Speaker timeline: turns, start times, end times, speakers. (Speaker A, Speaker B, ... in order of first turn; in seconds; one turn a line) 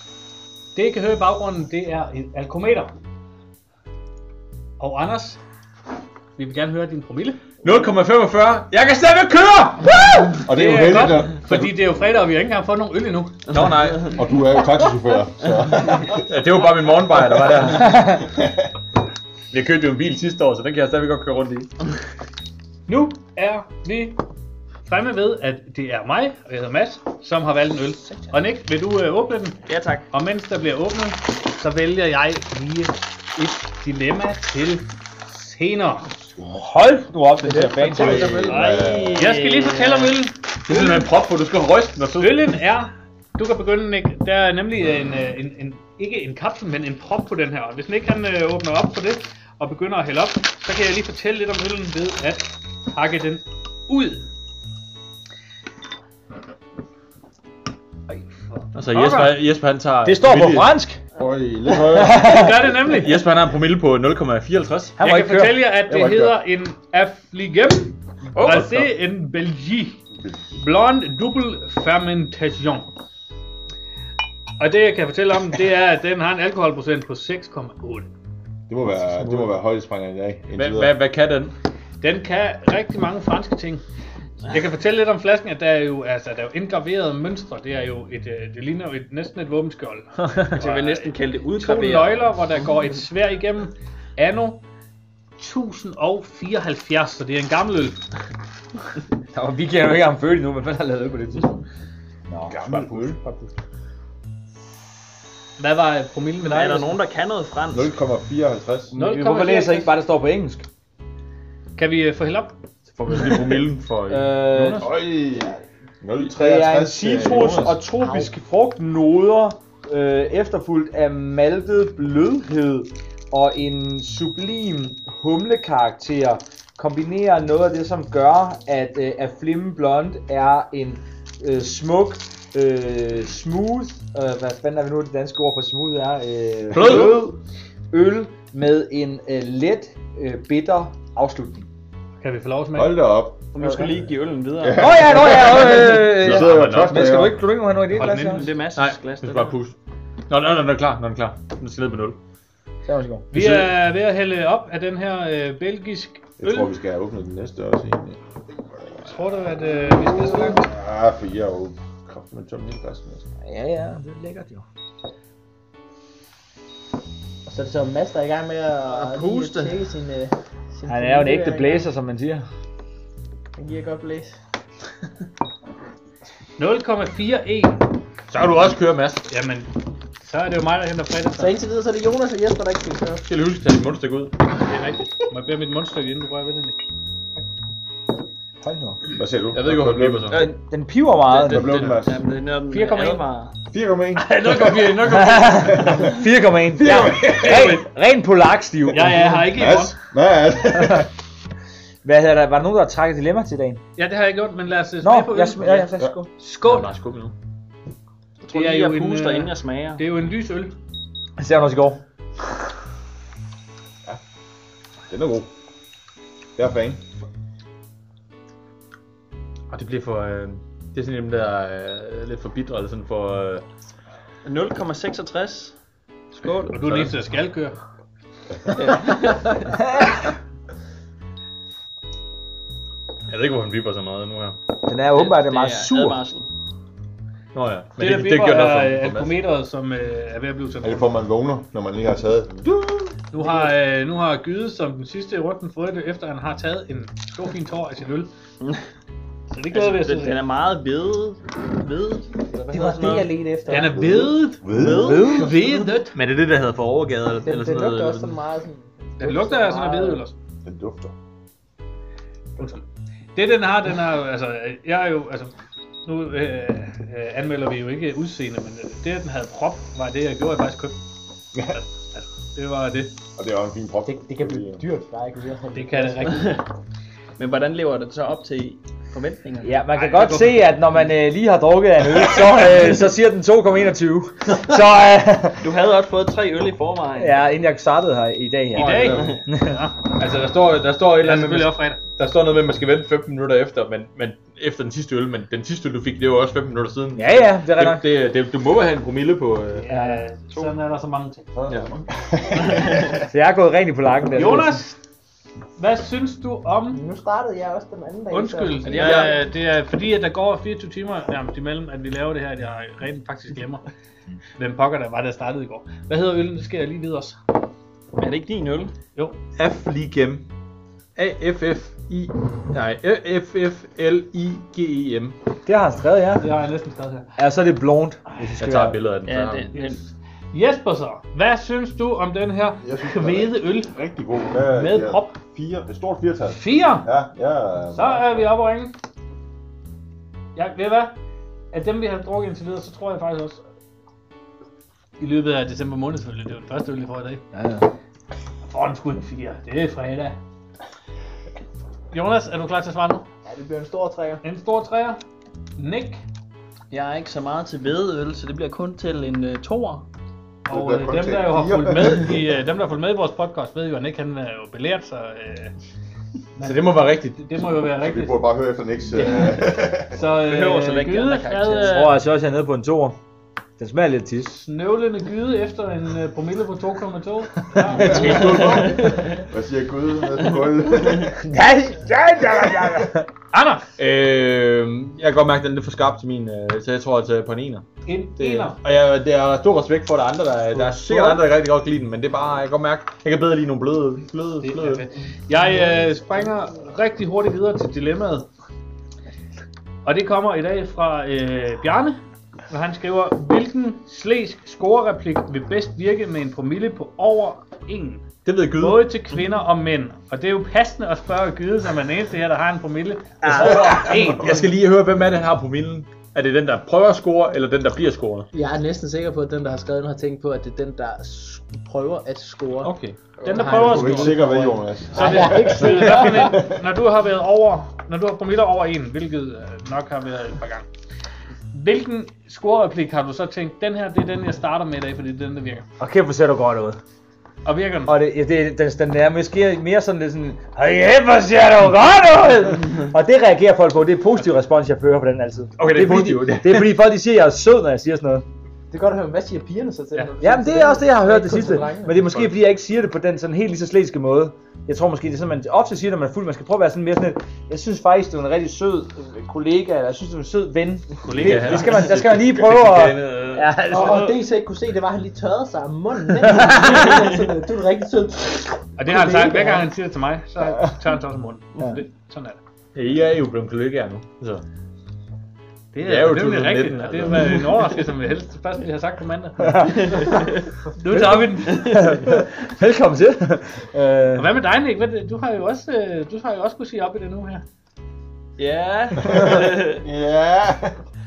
Speaker A: 0.8-2.9
Speaker A: 4.8-5.4
Speaker A: 6.4-7.4
Speaker B: 7.6-9.8
Speaker A: 9.8-13.5
Speaker C: 10.4-11.7
Speaker B: 13.5-14.1
Speaker C: 14.0-16.2
Speaker B: 16.0-18.1
Speaker C: 18.2-18.7
Speaker B: 19.5-21.7
Speaker A: 22.9-24.2
Speaker A: 24.9-36.1
Speaker D: 29.7-30.1
Speaker E: 36.5-38.6
Speaker F: 37.4-38.9
Speaker C: 37.9-39.3
Speaker A: 38.2-41.1
Speaker D: 38.7-40.1
Speaker B: 40.6-42.5
Speaker A: 42.2-54.3
Speaker A: 58.1-59.4
Speaker B: 58.7-60.7
Speaker E: 60.0-61.0
Speaker C: 61.1-62.2
Speaker E: 61.9-62.6
Speaker A: 62.1-63.1
Speaker B: 62.9-65.0
Speaker E: 65.0-65.6
Speaker A: 65.0-70.0
Speaker C: 65.8-66.4
Speaker E: 68.4-68.9
Speaker C: 70.1-70.5
Speaker A: 70.6-72.9
Speaker A: 74.6-78.1
Speaker C: 78.7-81.0
Speaker B: 79.0-79.6
Speaker B: 80.5-81.5
Speaker A: 82.0-83.8
Speaker A: 84.5-94.6
Speaker D: 90.5-92.4
Speaker A: 95.4-98.0
Speaker E: 99.3-101.6
Speaker E: 102.3-102.6
Speaker C: 102.5-103.2
Speaker B: 102.7-103.1
Speaker A: 105.6-106.9
Speaker D: 106.4-108.0
Speaker C: 107.7-109.0
Speaker A: 108.9-109.9
Speaker E: 109.0-110.7
Speaker A: 111.8-112.6
Speaker B: 112.9-114.9
Speaker E: 114.1-114.9
Speaker C: 114.8-117.8
Speaker E: 116.3-137.4
Speaker F: 118.0-118.3
Speaker B: 136.7-137.2
Speaker E: 137.9-141.7
Speaker A: 142.2-143.0
Speaker C: 142.7-147.4
Speaker D: 143.5-144.9
Speaker E: 144.8-148.5
Speaker B: 146.1-147.1
Speaker A: 147.9-148.6
Speaker D: 148.2-149.6
Speaker B: 148.8-149.8
Speaker B: 150.3-152.2
Speaker E: 152.8-153.4
Speaker A: 153.3-156.7
Speaker B: 153.3-153.7
Speaker C: 156.4-158.2
Speaker A: 159.0-160.7
Speaker C: 160.2-163.2
Speaker E: 163.4-164.6
Speaker F: 167.5-171.9
Speaker D: 168.9-169.8
Speaker E: 170.9-172.5
Speaker F: 173.6-174.3
Speaker A: 176.6-177.9
Speaker B: 178.3-179.3
Speaker A: 179.3-181.6
Speaker F: 181.4-183.2
Speaker B: 183.2-184.3
Speaker A: 184.6-186.8
Speaker E: 188.6-189.0
Speaker C: 189.1-190.4
Speaker B: 189.5-190.5
Speaker E: 190.3-191.8
Speaker D: 191.3-193.5
Speaker C: 191.4-192.2
Speaker A: 192.7-193.0
Speaker E: 192.8-193.2
Speaker C: 193.7-195.2
Speaker A: 194.2-195.9
Speaker E: 195.1-199.5
Speaker C: 195.8-196.1
Speaker C: 196.8-197.8
Speaker A: 197.3-197.8
Speaker A: 198.9-200.0
Speaker C: 199.4-201.1
Speaker E: 200.8-201.1
Speaker E: 202.0-203.8
Speaker A: 204.0-206.9
Speaker E: 205.0-206.3
Speaker B: 206.7-207.3
Speaker D: 208.4-210.0
Speaker A: 208.5-210.8
Speaker E: 211.4-212.0
Speaker C: 215.1-215.5
Speaker C: 216.6-217.0
Speaker B: 219.7-223.7
Speaker D: 224.4-225.8
Speaker A: 226.7-227.8
Speaker B: 226.8-227.1
Speaker D: 228.7-229.7
Speaker E: 229.8-230.1
Speaker B: 233.3-234.6
Speaker E: 234.9-236.2
Speaker D: 235.1-236.5
Speaker B: 237.5-239.4
Speaker A: 238.0-241.2
Speaker C: 240.8-243.2
Speaker A: 243.3-248.3
Speaker A: 249.5-250.4
Speaker D: 249.7-253.3
Speaker F: 252.7-254.0
Speaker A: 253.7-256.2
Speaker C: 253.9-255.4
Speaker E: 254.8-255.6
Speaker B: 256.1-258.4
Speaker F: 257.4-260.2
Speaker A: 259.2-260.4
Speaker C: 260.6-261.1
Speaker A: 263.4-265.5
Speaker A: 266.1-271.0
Speaker A: 271.7-273.2
Speaker C: 273.4-274.9
Speaker F: 274.1-276.4
Speaker A: 275.8-276.6
Speaker D: 277.4-279.8
Speaker E: 279.6-285.7
Speaker A: 279.9-280.7
Speaker D: 285.6-287.5
Speaker E: 287.1-289.8
Speaker D: 288.8-289.4
Speaker A: 288.8-290.1
Speaker B: 290.2-299.9
Speaker A: 291.2-292.0
Speaker E: 297.1-298.1
Speaker A: 299.7-301.5
Speaker E: 299.9-300.2
Speaker C: 301.6-302.8
Speaker E: 303.1-304.8
Speaker A: 304.3-305.0
Speaker A: 305.8-307.0
Speaker F: 306.9-309.4
Speaker A: 308.3-313.9
Speaker D: 308.8-309.3
Speaker B: 309.0-309.4
Speaker A: 314.6-317.4
Speaker D: 318.2-318.9
Speaker B: 319.6-320.5
Speaker B: 321.2-325.4
Speaker E: 325.7-326.5
Speaker A: 326.4-327.3
Speaker E: 327.4-329.0
Speaker B: 328.6-329.8
Speaker D: 329.3-330.0
Speaker A: 329.7-333.9
Speaker C: 332.8-338.5
Speaker A: 334.7-335.4
Speaker A: 336.5-337.1
Speaker A: 337.9-339.0
Speaker A: 340.6-341.2
Speaker A: 341.7-343.6
Speaker A: 345.2-347.4
Speaker E: 347.5-347.9
Speaker A: 348.6-350.4
Speaker A: 352.1-353.2
Speaker F: 353.5-354.4
Speaker A: 354.4-355.2
Speaker A: 355.8-356.2
Speaker D: 356.9-360.1
Speaker A: 360.7-365.7
Speaker C: 360.7-362.3
Speaker A: 366.5-368.4
Speaker B: 366.6-367.4
Speaker C: 368.0-370.2
Speaker D: 369.2-369.6
Speaker A: 370.1-372.2
Speaker D: 370.4-372.0
Speaker E: 371.8-373.2
Speaker E: 373.8-374.6
Speaker A: 374.5-379.1
Speaker E: 377.7-378.5
Speaker C: 378.0-381.4
Speaker B: 378.0-379.1
Speaker E: 381.4-383.3
Speaker A: 383.5-383.9
Speaker B: 384.0-387.9
Speaker A: 388.1-388.8
Speaker B: 388.4-395.0
Speaker A: 394.6-398.5
Speaker A: 400.0-402.2
Speaker A: 402.7-408.3
Speaker B: 408.4-409.0
Speaker A: 408.8-414.6
Speaker E: 413.4-414.2
Speaker B: 413.5-418.5
Speaker F: 418.5-426.5
Speaker B: 422.8-423.4
Speaker A: 423.4-430.9
Speaker C: 423.8-425.3
Speaker E: 425.9-426.3
Speaker A: 431.7-435.9
Speaker E: 436.0-437.0
Speaker A: 437.6-438.2
Speaker E: 438.1-448.4
Speaker B: 445.8-446.9
Speaker F: 448.9-452.2
Speaker E: 450.4-464.4
Speaker B: 452.2-452.6
Speaker B: 461.2-463.7
Speaker F: 463.9-469.9
Speaker A: 469.0-472.6
Speaker B: 472.9-474.6
Speaker A: 475.9-480.1
Speaker B: 476.0-477.8
Speaker E: 479.6-480.0
Speaker D: 479.9-480.7
Speaker A: 480.9-481.9
Speaker E: 481.1-484.5
Speaker A: 484.4-487.6
Speaker D: 488.6-490.0
Speaker C: 490.0-491.0